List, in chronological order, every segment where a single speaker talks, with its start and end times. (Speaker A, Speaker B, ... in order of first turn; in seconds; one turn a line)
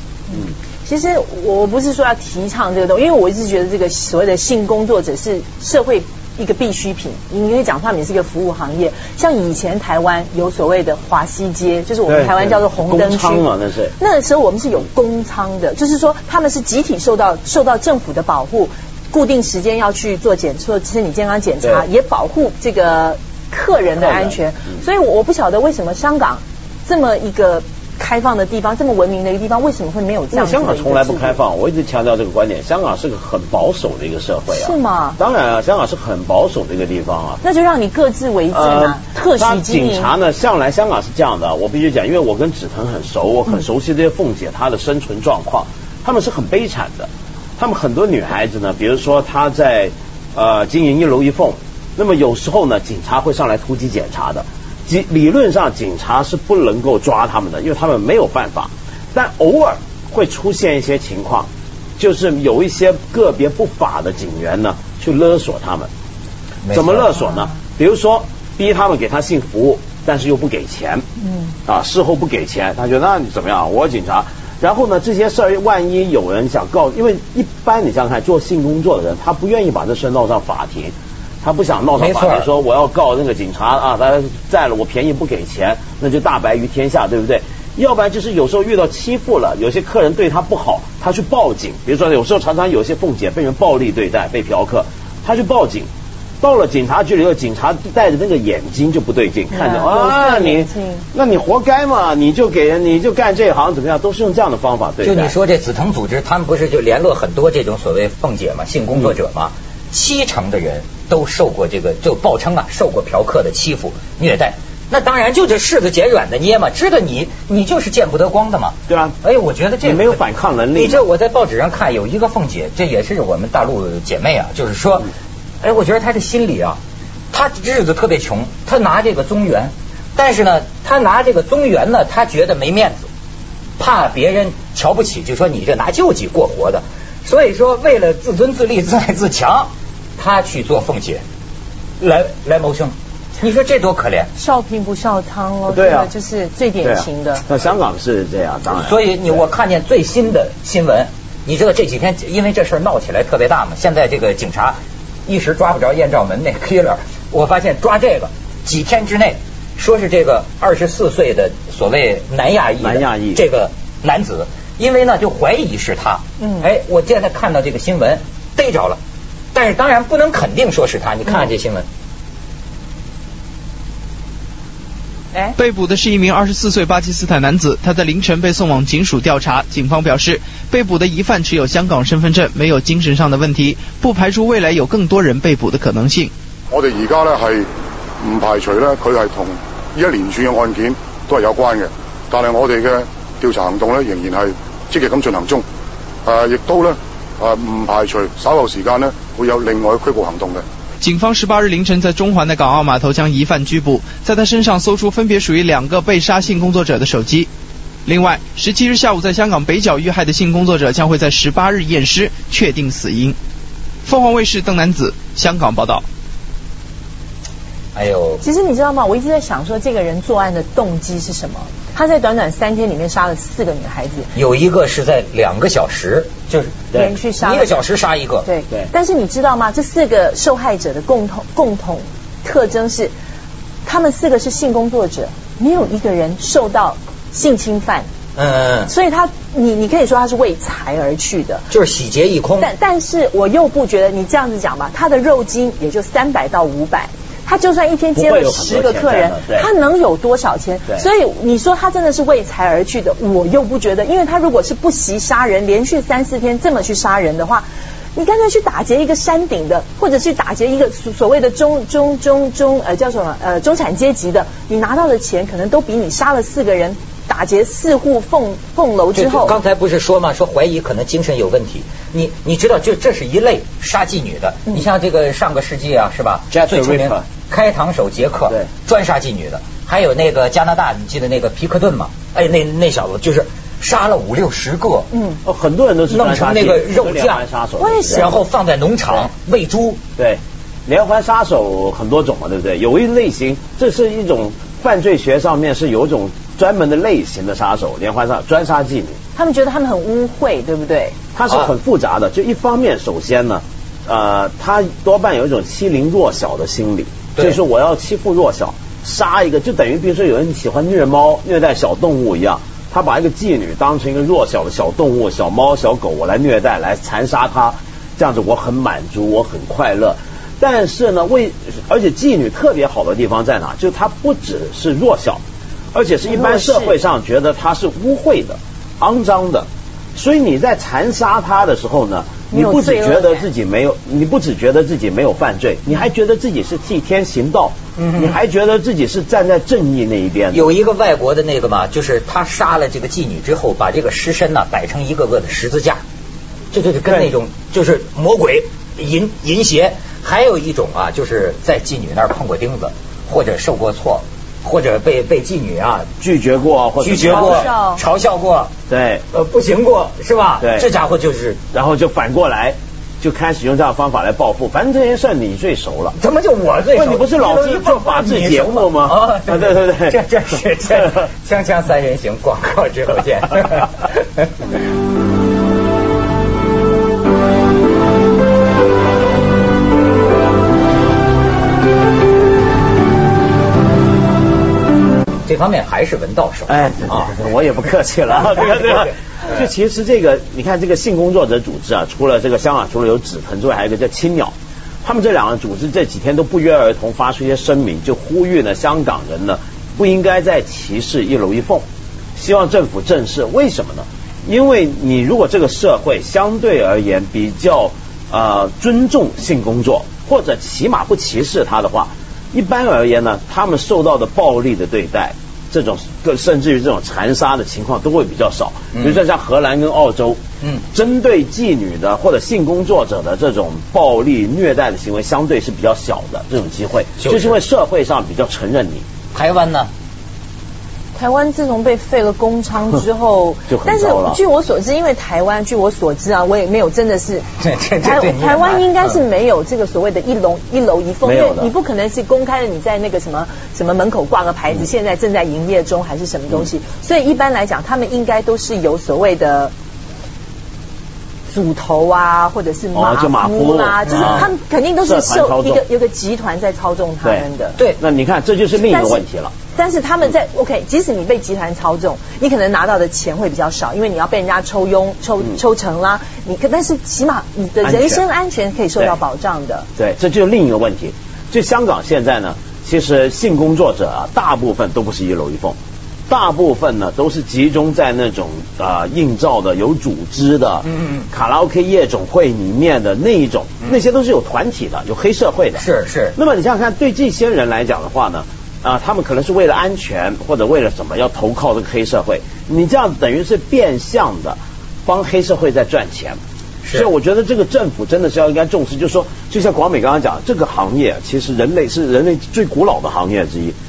Speaker A: 0.3-13.4
Speaker B: 12.1-13.9
Speaker A: 14.0-31.4
Speaker B: 24.0-24.4
Speaker B: 30.3-37.4
Speaker A: 34.5-35.2
Speaker A: 37.4-40.1
Speaker B: 38.5-65.9
Speaker C: 66.6-67.1
Speaker B: 66.7-71.0
Speaker B: 71.7-95.9
Speaker C: 82.0-82.5
Speaker B: 96.4-105.3
Speaker A: 99.5-101.0
Speaker C: 105.0-120.2
Speaker B: 118.9-119.2
Speaker B: 119.8-121.0
Speaker C: 120.7-125.1
Speaker C: 125.6-126.8
Speaker C: 127.3-133.1
Speaker C: 133.8-141.2
Speaker C: 142.0-144.3
Speaker A: 144.3-147.4
Speaker B: 145.7-146.1
Speaker B: 146.8-149.0
Speaker C: 148.7-169.0
Speaker B: 162.8-163.4
Speaker A: 166.4-166.7
Speaker C: 169.5-171.8
Speaker D: 175.6-186.3
Speaker E: 186.7-187.7
Speaker E: 188.2-195.6
Speaker E: 196.2-200.6
Speaker D: 201.0-207.5
Speaker D: 208.1-213.3
Speaker D: 214.0-216.0
Speaker C: 217.9-218.4
Speaker A: 218.4-224.3
Speaker C: 224.3-228.5
Speaker A: 226.9-227.8
Speaker A: 228.4-233.1
Speaker A: 233.8-238.1
Speaker C: 238.3-238.9
Speaker A: 238.9-241.7
Speaker C: 241.7-242.7
Speaker A: 242.6-269.6
Speaker B: 248.1-249.7
Speaker C: 269.1-285.1
Speaker B: 276.5-277.2
Speaker A: 285.1-285.4
Speaker B: 285.4-288.4
Speaker C: 286.1-290.0
Speaker A: 287.8-288.3
Speaker B: 290.2-299.2
Speaker A: 299.3-301.1
Speaker B: 301.3-325.4
Speaker B: 325.9-340.7
Speaker A: 326.2-326.9
Speaker A: 332.5-333.4
Speaker C: 337.9-338.4
Speaker C: 340.5-346.0
Speaker C: 346.7-356.1
Speaker B: 347.1-347.3
Speaker B: 356.2-357.7
Speaker C: 357.0-358.7
Speaker A: 357.2-358.0
Speaker B: 358.9-359.2
Speaker C: 359.3-361.6
Speaker B: 360.6-360.9
Speaker B: 361.7-366.2
Speaker C: 366.1-374.7
Speaker B: 366.9-370.2
Speaker C: 385.4-387.4
Speaker B: 386.7-420.4
Speaker C: 388.4-389.6
Speaker B: 420.9-429.0
Speaker C: 427.2-427.6
Speaker C: 429.3-429.9
Speaker A: 431.1-437.5
Speaker B: 433.7-434.4
Speaker C: 437.6-439.2
Speaker A: 438.0-449.7
Speaker B: 441.2-441.7
Speaker A: 451.5-457.8
Speaker B: 452.9-454.5
Speaker C: 454.1-454.4
Speaker B: 455.0-455.8
Speaker B: 458.0-459.5
Speaker A: 458.8-459.2
Speaker A: 459.7-469.9
Speaker B: 467.8-468.2
Speaker B: 470.0-475.8
Speaker B: 476.3-496.4
Speaker C: 480.8-481.3
Speaker C: 485.7-486.4
Speaker C: 496.8-497.1
Speaker B: 496.9-503.8